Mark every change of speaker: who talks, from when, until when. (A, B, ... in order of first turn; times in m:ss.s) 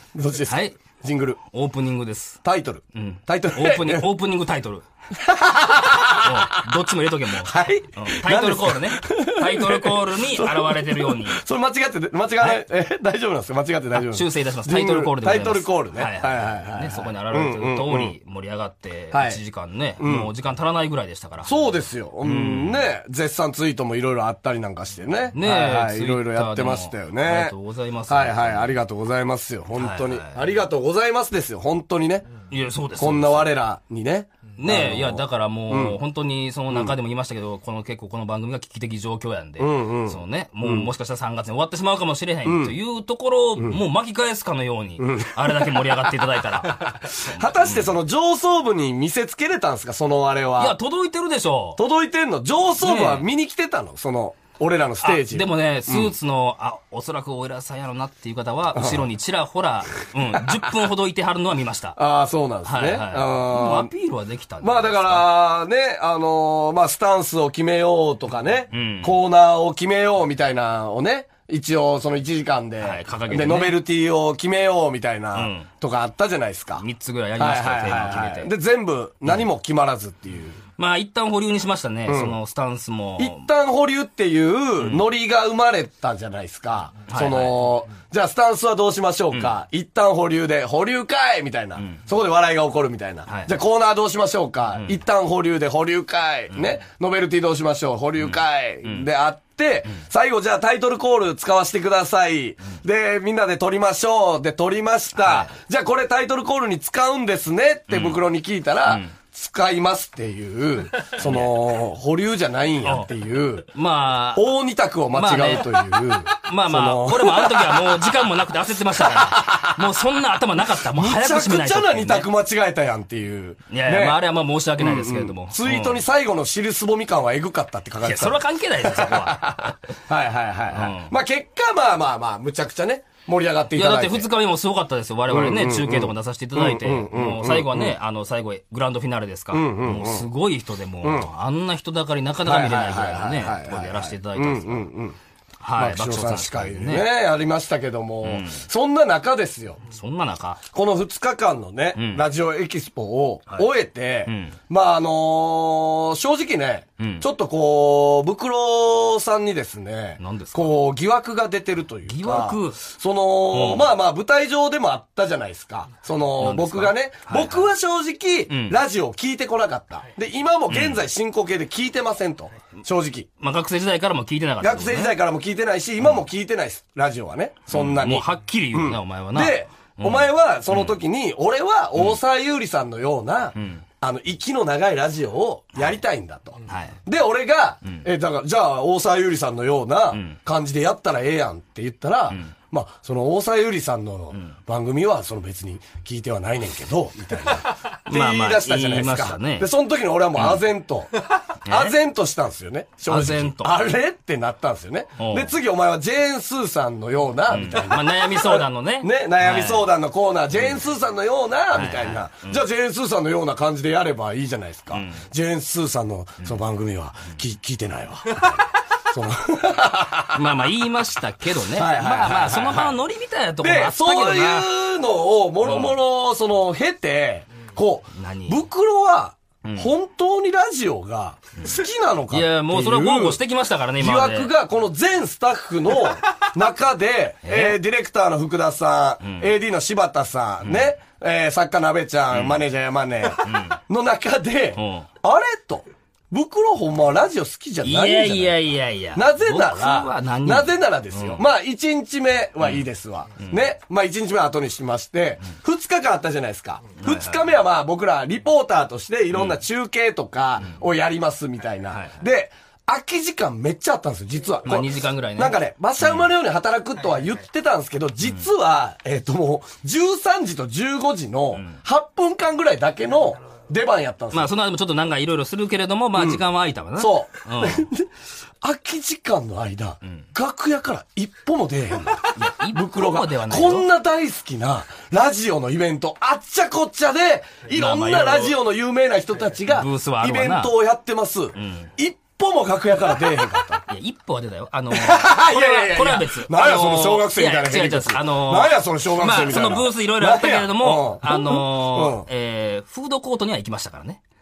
0:00.1-0:01.4 A
0:00.5-0:00.8 B
0:01.5-0:02.4 B
0:02.4-0:04.0 A
0:02.9-0:04.8 B
0:05.1-0:06.7 A
0:06.0-0:11.4 B
0:07.4-0:18.1 A
0:13.9-0:21.5 B
0:19.1-0:19.4 A
0:20.0-0:20.3 A
0:21.4-0:27.5 A
0:22.2-0:22.8 B
0:25.3-0:28.8 B
0:28.1-0:32.3 A
0:29.8-0:30.5 B
0:32.5-0:33.5 B
0:33.0-0:36.0 A
0:34.6-0:47.9 B
0:39.6-0:40.9 A
0:42.4-0:42.8 A
0:45.0-0:50.8 A
0:50.6-0:51.8 B
0:51.8-0:56.1 A
0:52.8-0:53.2 B
0:55.0-1:02.0 B
0:58.7-0:59.0 A
1:00.3-1:00.7 A
1:02.0-1:03.9 A
1:02.6-1:05.3 B
1:04.6-1:16.8 A
1:08.7-1:09.1 B
1:12.8-1:13.8 B
1:15.3-1:15.7 B
1:16.8-1:18.5 B
1:17.4-1:20.6 A
1:20.8-1:23.5 B
1:22.1-1:22.4 A
1:23.2-1:53.7 A
1:24.8-1:25.0 B
1:27.1-1:27.6 B
1:31.8-1:32.0 B
1:33.3-1:33.5 B
1:38.2-1:39.1 B
1:45.2-1:45.5 B
1:47.9-1:48.2 B
1:48.8-1:49.1 B
1:51.2-1:51.5 B
1:52.8-1:53.1 B
1:53.7-1:54.5 B
1:54.3-1:58.1 A
1:55.1-1:55.8 B
1:56.3-2:02.3 B
1:58.9-1:59.8 A
2:00.7-2:04.2 A
2:03.7-2:06.0 B
2:04.8-2:14.3 A
2:08.0-2:09.7 B
2:10.7-2:11.1 B
2:13.7-2:24.9 B
2:15.3-2:18.0 A
2:19.5-2:20.3 A
2:21.0-2:21.3 A
2:22.4-2:25.2 A
2:25.6-2:27.1 B
2:25.8-2:29.8 A
2:28.2-2:28.6 B
2:29.9-2:30.6 B
2:30.7-2:53.3 A
2:32.0-2:32.2 B
2:34.3-2:34.6 B
2:37.0-2:37.2 B
2:40.2-2:40.8 B
2:42.0-2:42.8 B
2:43.5-2:43.9 B
2:46.4-2:47.7 B
2:48.5-2:48.8 B
2:50.7-2:51.0 B
2:53.4-2:55.2 B
2:54.6-3:21.2 A
2:57.7-3:01.0 B
3:03.6-3:03.8 B
3:06.7-3:07.0 B
3:18.1-3:19.7 B
3:20.3-3:20.6 B
3:21.6-3:21.9 B
3:21.7-3:40.4 A
3:23.1-3:23.7 B
3:25.2-3:25.5 B
3:27.5-3:29.9 B
3:31.7-3:32.6 B
3:34.9-3:35.2 B
3:40.3-3:44.7 B
3:41.7-3:43.0 A
3:43.6-3:53.4 A
3:45.6-3:46.0 B
3:48.1-3:48.6 B
3:49.6-3:49.9 B
3:52.3-3:54.5 B
3:54.0-4:08.6 A
3:57.4-3:57.8 B
3:59.2-3:59.5 B
4:00.6-4:00.9 B
4:02.3-4:02.6 B
4:03.4-4:03.8 B
4:04.8-4:05.1 B
4:07.8-4:11.4 B
4:09.1-4:34.5 A
4:17.0-4:17.4 B
4:19.3-4:19.6 B
4:21.9-4:22.2 B
4:24.6-4:26.3 B
4:31.5-4:31.8 B
4:34.3-4:37.9 B
4:36.1-4:36.4 A
4:37.0-4:38.1 A
4:38.6-4:53.8 A
4:42.3-4:43.9 B
4:47.7-4:48.6 B
4:49.6-4:50.7 B
4:51.5-4:51.9 B
4:53.9-5:04.2 B
4:54.9-5:02.3 A